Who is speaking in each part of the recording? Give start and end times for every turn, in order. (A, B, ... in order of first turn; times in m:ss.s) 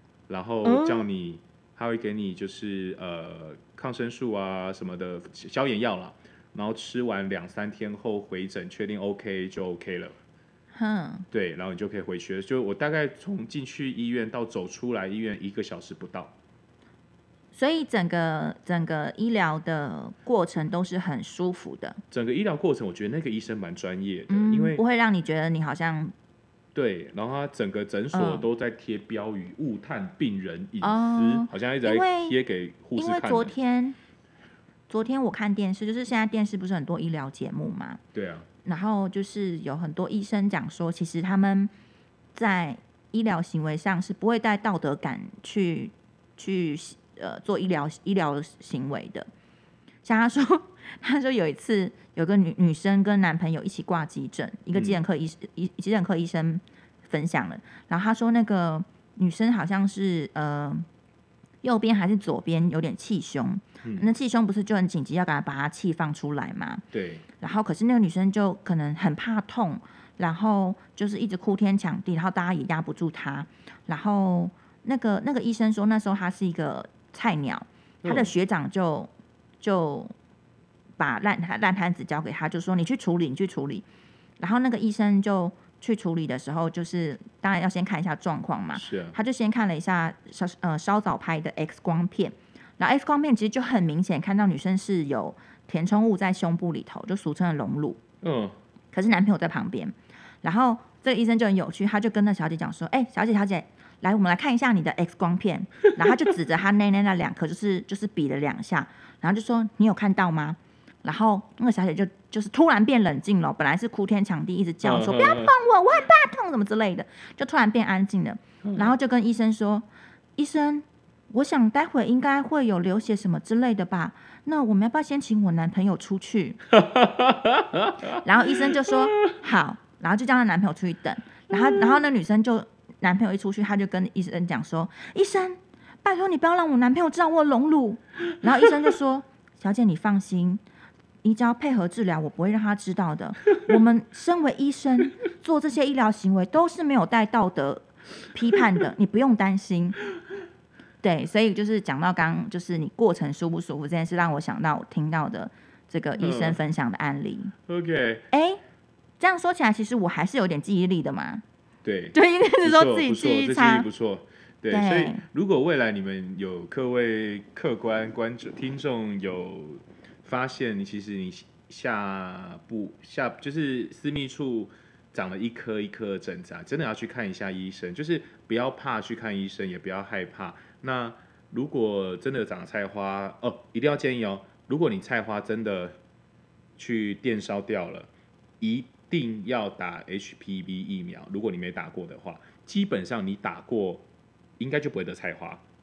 0:00.3-0:10.2 A
0:00.6-0:01.1 B
0:10.7-0:11.2 B
0:11.3-0:16.3 A
0:17.5-0:22.0 B
0:22.1-0:24.8 A
0:24.3-0:26.1 B
0:26.7-0:33.5 A
0:28.1-0:28.4 B
0:30.8-0:32.4 B
0:33.0-0:34.0 B
0:34.9-0:38.0 B
0:38.1-0:38.5 A
0:38.6-0:41.7 B
0:42.3-0:49.3 B
0:50.0-1:00.8 B
0:54.7-0:55.0 A
1:01.6-1:06.8 B
1:03.8-1:04.1 A
1:06.9-1:07.2 A
1:07.4-1:19.1 B
1:18.0-1:18.3 A
1:19.6-1:20.1 B
1:21.0-1:23.8 B
1:24.4-1:38.0 B
1:28.7-1:29.2 A
1:38.2-1:38.6 A
1:38.9-2:06.6 B
1:54.8-1:55.5 A
1:58.6-1:58.9 A
2:06.7-2:09.3 A
2:08.2-2:20.6 B
2:11.5-2:12.0 A
2:21.2-2:30.0 B
2:31.0-2:37.5 B
2:36.2-2:36.6 A
2:37.7-2:38.3 A
2:38.3-2:38.6 B
2:39.2-2:41.4 B
2:41.8-3:05.9 A
2:42.1-2:43.9 B
2:44.7-2:45.2 B
3:06.8-3:08.1 A
3:08.6-3:14.0 A
3:14.6-3:15.6 A